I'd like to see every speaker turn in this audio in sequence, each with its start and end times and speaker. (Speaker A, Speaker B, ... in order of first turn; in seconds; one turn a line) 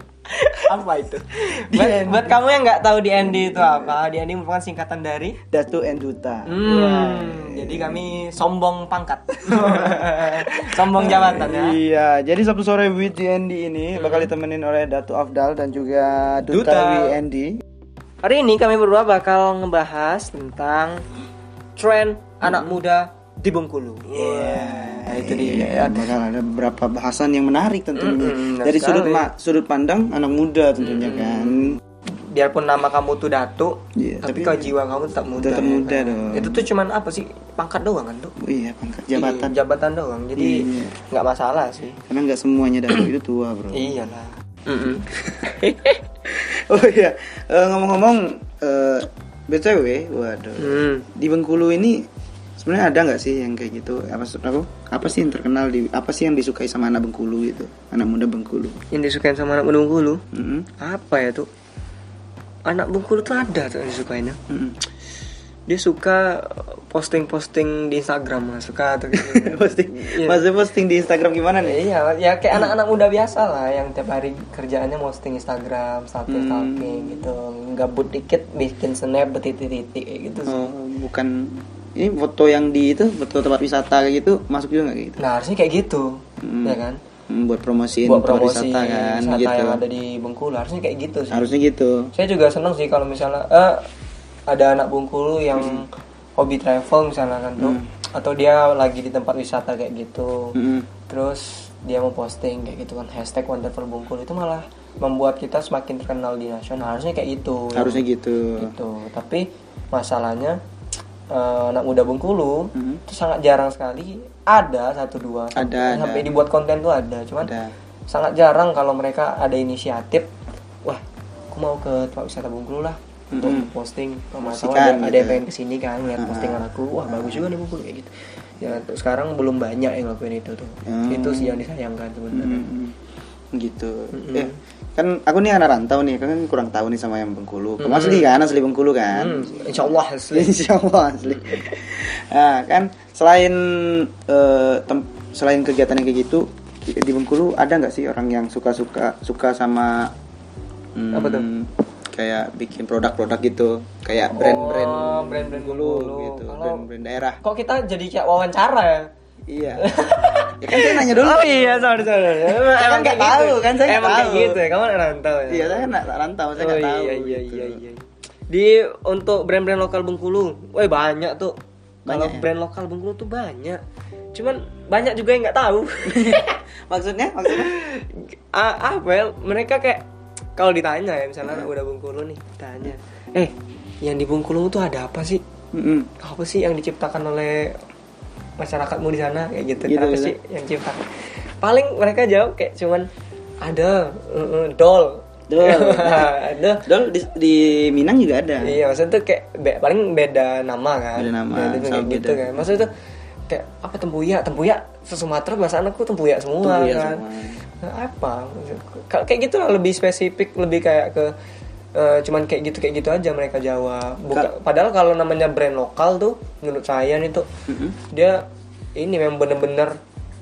Speaker A: 0.3-5.4
Speaker B: 1.7-2.4
Speaker B: 3.2-4.0
Speaker B: 5.5-8.1
Speaker A: 6.5-11.8
Speaker B: 9.5-17.6
Speaker A: 14.0-14.3
Speaker A: 16.5-17.2
Speaker A: 18.2-21.1
Speaker A: 21.8-26.1
Speaker B: 22.4-22.8
Speaker B: 24.1-31.8
Speaker A: 28.0-29.3
Speaker A: 30.8-38.4
Speaker B: 34.0-34.7
Speaker B: 35.4-36.6
Speaker B: 38.4-39.5
Speaker A: 39.1-42.0
Speaker B: 40.4-40.9
Speaker B: 42.1-43.9
Speaker A: 43.7-46.0
Speaker B: 45.1-45.5
Speaker B: 46.2-52.1
Speaker A: 50.6-51.1
Speaker B: 52.6-58.8
Speaker A: 58.9-60.2
Speaker B: 60.3-60.7
Speaker A: 60.8-61.5
Speaker A: 62.7-64.4
Speaker B: 64.5-64.8
Speaker A: 65.7-70.4
Speaker B: 69.1-71.8
Speaker A: 71.6-80.7
Speaker B: 76.3-77.3
Speaker B: 80.5-85.2
Speaker A: 85.2-87.0
Speaker B: 86.4-89.8
Speaker A: 88.0-91.5
Speaker B: 91.3-92.1
Speaker A: 92.1-93.8
Speaker A: 94.5-100.6
Speaker B: 95.5-95.8
Speaker B: 97.6-97.9
Speaker B: 100.5-100.9
Speaker A: 101.1-108.0
Speaker B: 107.7-108.7
Speaker A: 108.6-110.6
Speaker A: 111.3-117.5
Speaker B: 112.7-113.0
Speaker B: 115.5-116.3
Speaker B: 117.4-117.7
Speaker A: 118.1-120.3
Speaker A: 120.8-132.7
Speaker B: 123.3-123.7
Speaker B: 124.4-125.4
Speaker B: 126.2-127.5
Speaker B: 130.9-131.6
Speaker B: 132.3-132.9
Speaker B: 133.5-150.1
Speaker A: 134.1-134.6
Speaker A: 137.8-138.3
Speaker A: 139.1-140.5
Speaker B: 151.0-157.4
Speaker A: 151.1-151.5
Speaker A: 154.3-156.9
Speaker A: 157.4-159.1
Speaker B: 159.5-159.9
Speaker A: 159.8-165.9
Speaker B: 160.6-164.6
Speaker B: 165.5-167.8
Speaker A: 166.6-171.6
Speaker B: 172.1-172.5
Speaker A: 172.1-173.8
Speaker A: 174.3-176.6
Speaker B: 176.1-177.7
Speaker A: 177.5-180.0
Speaker A: 180.6-185.4
Speaker B: 185.7-186.1
Speaker A: 186.2-187.8
Speaker A: 188.6-193.1
Speaker B: 189.8-190.3
Speaker A: 193.6-196.8
Speaker B: 195.5-196.3
Speaker B: 196.8-198.8
Speaker A: 198.6-202.9
Speaker B: 201.2-202.9
Speaker A: 203.5-207.2
Speaker B: 206.6-207.6
Speaker A: 207.8-211.3
Speaker A: 211.9-217.5
Speaker B: 217.7-218.0
Speaker A: 218.1-218.4
Speaker A: 219.0-220.0